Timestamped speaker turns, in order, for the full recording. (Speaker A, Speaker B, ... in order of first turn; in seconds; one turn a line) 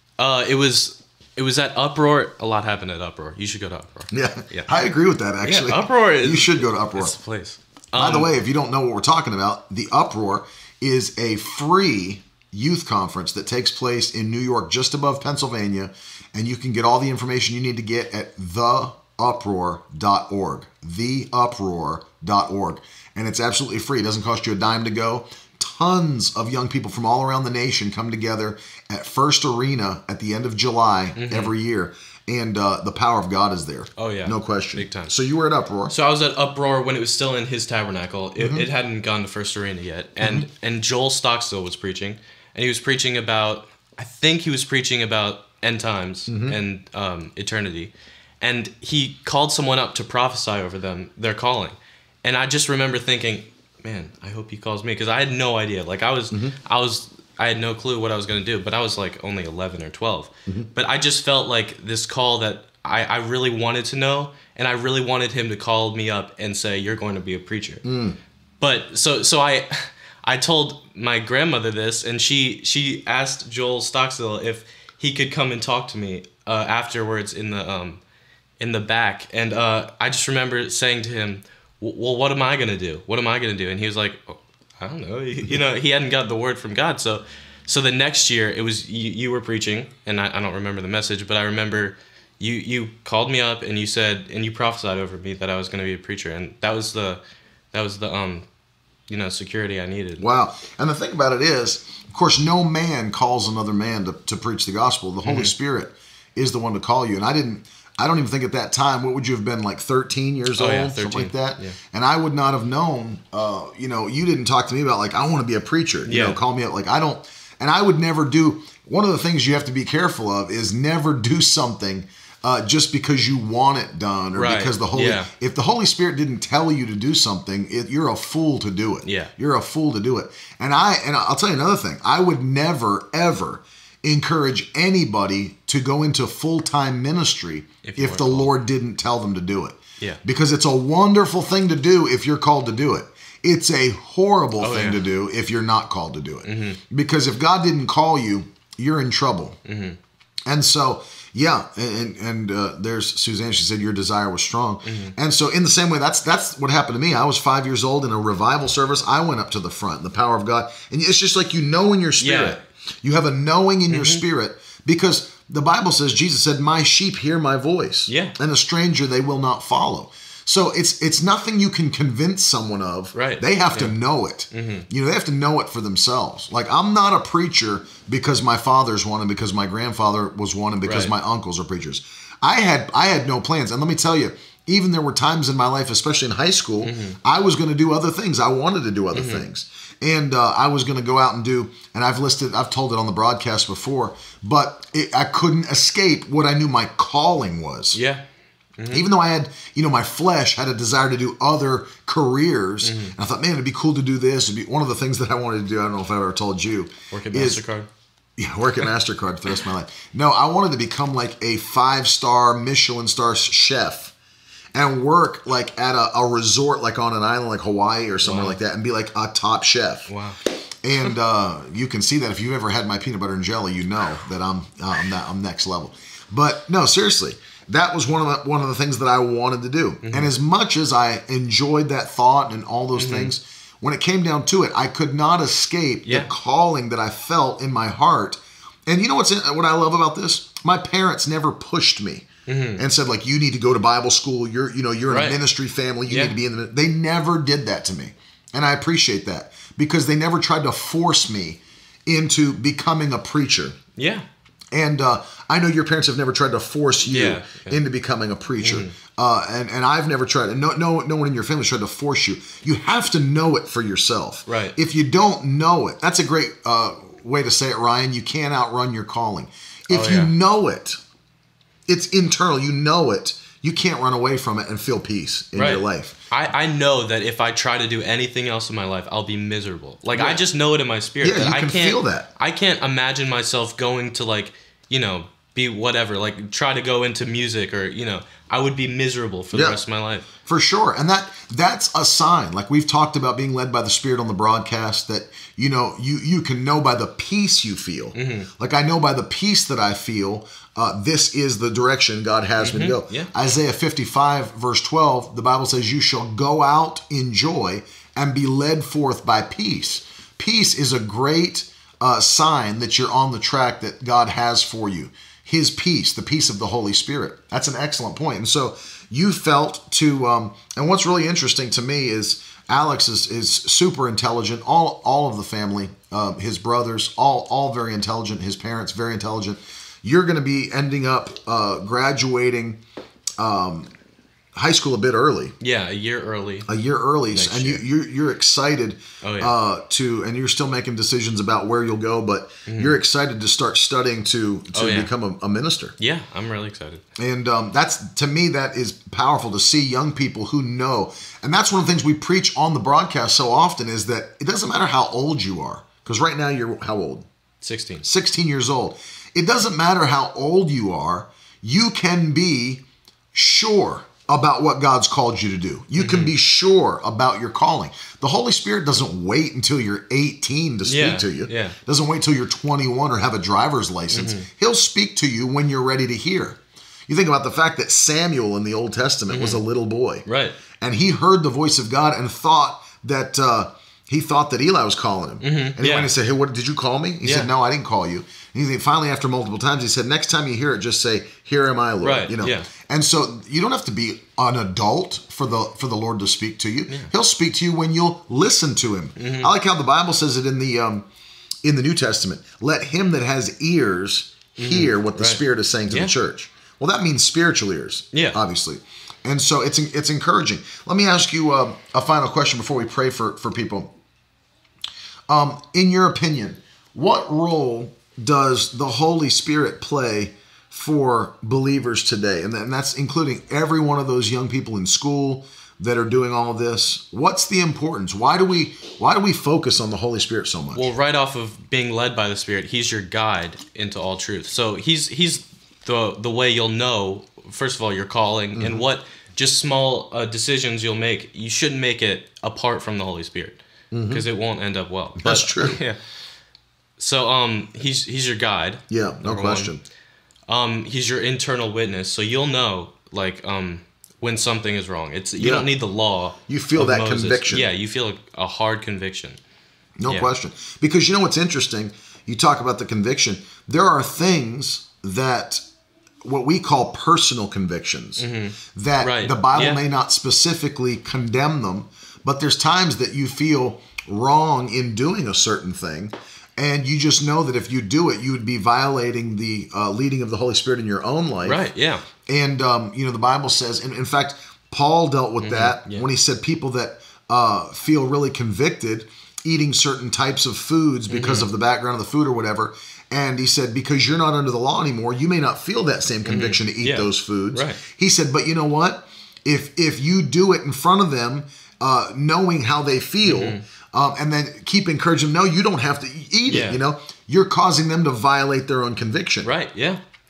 Speaker A: 0.2-4.7
Speaker B: 4.1-7.2
Speaker A: 5.4-8.3
Speaker B: 7.9-35.9
Speaker A: 31.1-31.5
Speaker A: 34.0-35.1
Speaker A: 35.9-67.8
Speaker B: 38.4-38.6
Speaker B: 46.3-46.6
Speaker B: 56.3-56.5
Speaker B: 67.8-68.2
Speaker A: 68.6-78.0
Speaker A: 78.6-97.2
Speaker A: 97.7-98.5
Speaker A: 99.1-100.2
Speaker B: 100.2-149.6
Speaker A: 105.2-105.5
Speaker A: 110.5-111.8
Speaker A: 116.1-116.4
Speaker A: 124.3-125.3
Speaker A: 129.0-129.3
Speaker A: 137.8-138.5
Speaker A: 144.6-145.0
Speaker A: 146.4-146.8
Speaker A: 149.6-150.0
Speaker B: 150.4-198.0
Speaker A: 154.8-155.1
Speaker A: 162.2-162.6
Speaker A: 163.9-164.2
Speaker A: 168.1-168.3
Speaker A: 173.1-173.9
Speaker A: 174.5-174.8
Speaker A: 180.8-181.1
Speaker A: 186.8-187.2
Speaker A: 189.1-189.4
Speaker A: 197.9-198.2
Speaker A: 198.8-199.1
Speaker B: 198.9-207.6
Speaker A: 202.8-203.1
Speaker A: 207.1-207.9
Speaker B: 208.4-214.1
Speaker B: 214.7-220.1
Speaker A: 218.2-218.6
Speaker A: 220.1-220.4
Speaker B: 220.8-253.8
Speaker A: 230.0-230.3
Speaker A: 232.9-233.3
Speaker A: 242.5-242.8
Speaker A: 245.1-245.4
Speaker A: 246.1-246.3
Speaker A: 253.9-254.2
Speaker B: 254.7-271.0
Speaker A: 257.0-257.8
Speaker A: 258.6-258.9
Speaker A: 264.5-264.7
Speaker A: 269.9-270.3
Speaker B: 271.9-276.2
Speaker A: 275.5-290.3
Speaker B: 280.1-280.4
Speaker B: 281.2-282.3
Speaker B: 289.5-289.8
Speaker B: 290.4-332.8
Speaker A: 298.1-298.5
Speaker A: 302.6-303.3
Speaker B: 333.4-333.9
Speaker B: 334.5-335.5
Speaker A: 335.6-336.7
Speaker B: 336.7-345.9
Speaker A: 337.3-337.8
Speaker A: 339.2-339.5
Speaker A: 342.7-342.9
Speaker A: 344.7-345.1
Speaker A: 346.0-347.0
Speaker B: 347.2-357.3
Speaker A: 357.6-358.0
Speaker B: 358.0-380.2
Speaker A: 365.9-366.3
Speaker A: 370.8-371.8
Speaker A: 374.1-374.5
Speaker A: 379.3-379.6
Speaker A: 380.2-380.6
Speaker B: 380.8-401.1
Speaker A: 385.4-386.1
Speaker A: 392.0-392.7
Speaker A: 399.2-399.5
Speaker B: 401.6-413.9
Speaker A: 404.6-406.1
Speaker A: 408.1-408.4
Speaker B: 415.3-430.9
Speaker A: 430.7-443.6
Speaker B: 438.6-438.8
Speaker B: 443.9-444.2
Speaker A: 444.1-446.0
Speaker B: 445.2-445.8
Speaker A: 447.0-449.7
Speaker B: 448.9-449.8
Speaker A: 450.5-459.4
Speaker B: 455.4-455.7
Speaker B: 456.5-457.7
Speaker B: 460.0-465.6
Speaker B: 466.2-468.2
Speaker A: 468.2-469.8
Speaker B: 468.7-481.6
Speaker A: 481.4-482.0
Speaker B: 482.3-509.5
Speaker A: 485.4-486.0
Speaker A: 491.1-491.5
Speaker A: 496.2-497.8
Speaker A: 503.2-503.6
Speaker A: 506.5-506.8
Speaker A: 509.4-510.0